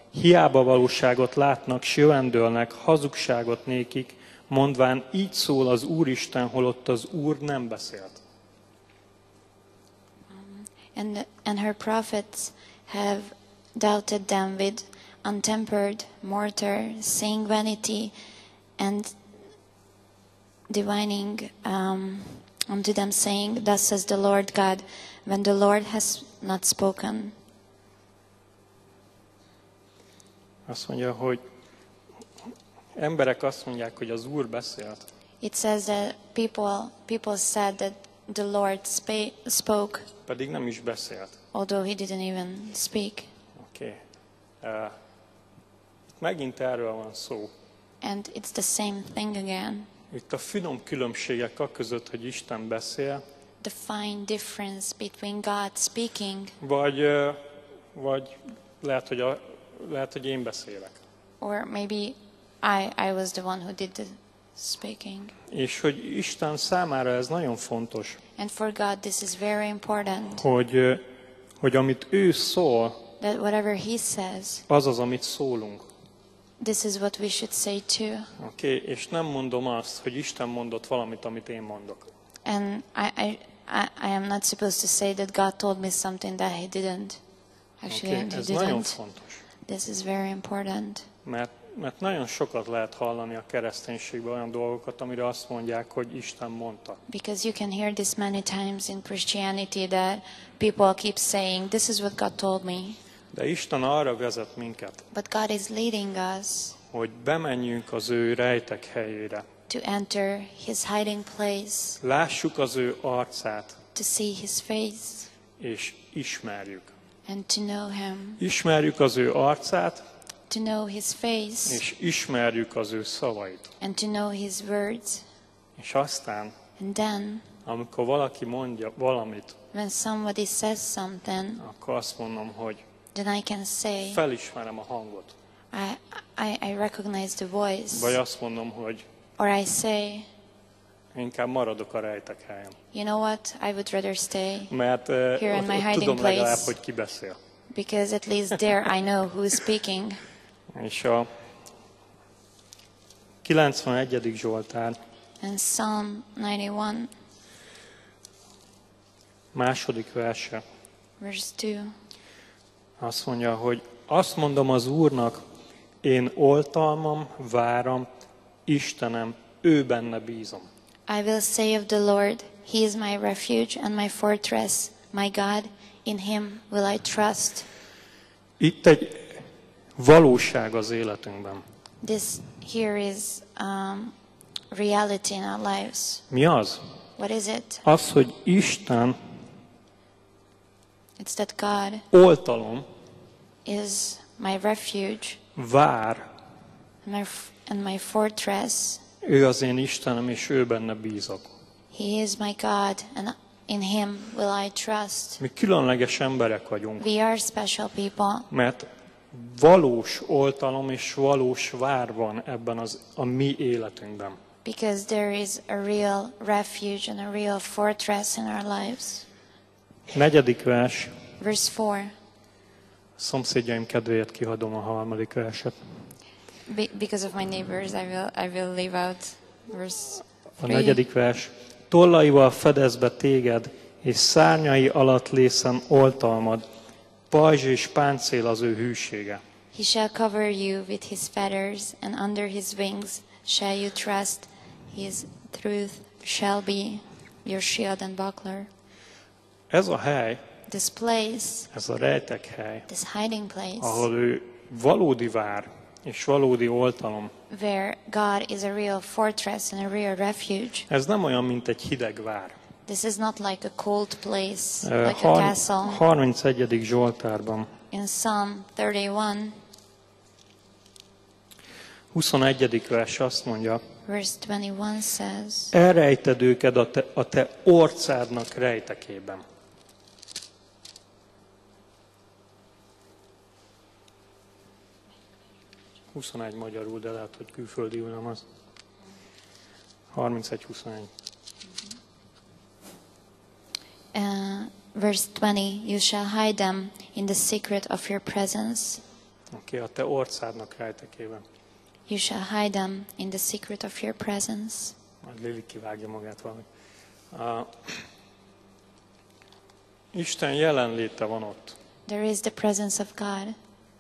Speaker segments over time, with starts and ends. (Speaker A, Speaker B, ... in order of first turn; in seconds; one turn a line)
Speaker A: 0.1-8.2
Speaker B: 10.3-18.1
Speaker B: 18.8-19.1
Speaker B: 20.7-27.3
Speaker A: 30.7-31.4
Speaker A: 33.0-35.1
Speaker B: 35.4-40.1
Speaker A: 40.2-41.4
Speaker B: 41.5-43.3
Speaker A: 43.6-44.0
Speaker A: 44.6-45.0
Speaker A: 46.2-47.5
Speaker B: 48.0-49.9
Speaker A: 50.1-53.2
Speaker B: 53.6-56.5
Speaker A: 56.6-61.0
Speaker B: 61.4-65.3
Speaker A: 65.5-68.2
Speaker B: 68.4-70.5
Speaker A: 70.4-71.0
Speaker A: 71.6-73.0
Speaker B: 73.2-74.6
Speaker A: 74.7-75.9
Speaker B: 76.6-78.3
Speaker A: 78.4-82.1
Speaker B: 82.4-87.2
Speaker B: 87.8-89.0
Speaker A: 87.9-89.4
Speaker B: 89.6-91.1
Speaker A: 91.2-97.0
Speaker B: 97.1-103.0
Speaker A: 103.3-105.1
Speaker B: 105.1-106.8
Speaker A: 106.9-109.5
Speaker B: 109.7-112.0
Speaker A: 112.0-113.8
Speaker B: 113.9-115.3
Speaker A: 115.6-116.9
Speaker B: 117.2-118.4
Speaker A: 118.4-120.0
Speaker B: 120.5-121.8
Speaker A: 121.7-123.7
Speaker B: 123.8-125.2
Speaker A: 125.8-126.5
Speaker B: 126.8-127.5
Speaker A: 127.7-129.6
Speaker B: 129.7-131.6
Speaker A: 131.6-132.8
Speaker B: 133.1-134.2
Speaker A: 134.1-135.3
Speaker B: 135.7-138.2
Speaker A: 137.9-139.1
Speaker B: 139.4-140.3
Speaker A: 141.1-142.8
Speaker B: 142.9-144.7
Speaker A: 144.7-147.4
Speaker B: 145.3-146.8
Speaker B: 147.7-150.2
Speaker A: 150.7-151.5
Speaker A: 153.4-155.0
Speaker B: 155.4-157.1
Speaker A: 159.5-160.6
Speaker B: 161.2-161.9
Speaker A: 163.0-165.4
Speaker A: 166.0-168.1
Speaker A: 168.7-170.7
Speaker B: 171.1-177.7
Speaker A: 178.6-181.6
Speaker B: 182.0-184.1
Speaker B: 184.7-186.2
Speaker A: 186.3-186.8
Speaker B: 187.2-187.8
Speaker A: 187.8-189.3
Speaker B: 191.2-192.0
Speaker A: 192.1-192.9
Speaker B: 193.6-195.4
Speaker A: 195.6-196.3
Speaker B: 197.0-199.0
Speaker A: 199.2-201.5
Speaker B: 201.9-205.4
Speaker A: 205.4-207.0
Speaker B: 207.0-208.5
Speaker A: 208.5-214.4
Speaker B: 214.6-219.2
Speaker A: 220.1-221.2
Speaker B: 221.4-222.2
Speaker A: 223.2-225.8
Speaker B: 226.7-231.0
Speaker A: 230.6-236.6
Speaker A: 237.3-239.4
Speaker B: 239.7-248.7
Speaker A: 249.7-250.4
Speaker B: 250.7-251.7
Speaker A: 251.7-252.9
Speaker B: 252.9-254.1
Speaker A: 253.8-257.3
Speaker B: 257.5-260.9
Speaker A: 260.9-262.6
Speaker B: 262.9-266.0
Speaker A: 264.8-267.7
Speaker B: 267.9-269.6
Speaker A: 272.1-273.8
Speaker B: 274.1-275.7
Speaker A: 275.7-279.4
Speaker A: 286.1-288.4
Speaker A: 290.1-291.1
Speaker B: 294.1-299.0
Speaker A: 299.5-301.4
Speaker B: 302.1-304.9
Speaker A: 305.2-306.7
Speaker A: 307.3-308.1
Speaker A: 310.1-311.8
Speaker B: 312.1-313.6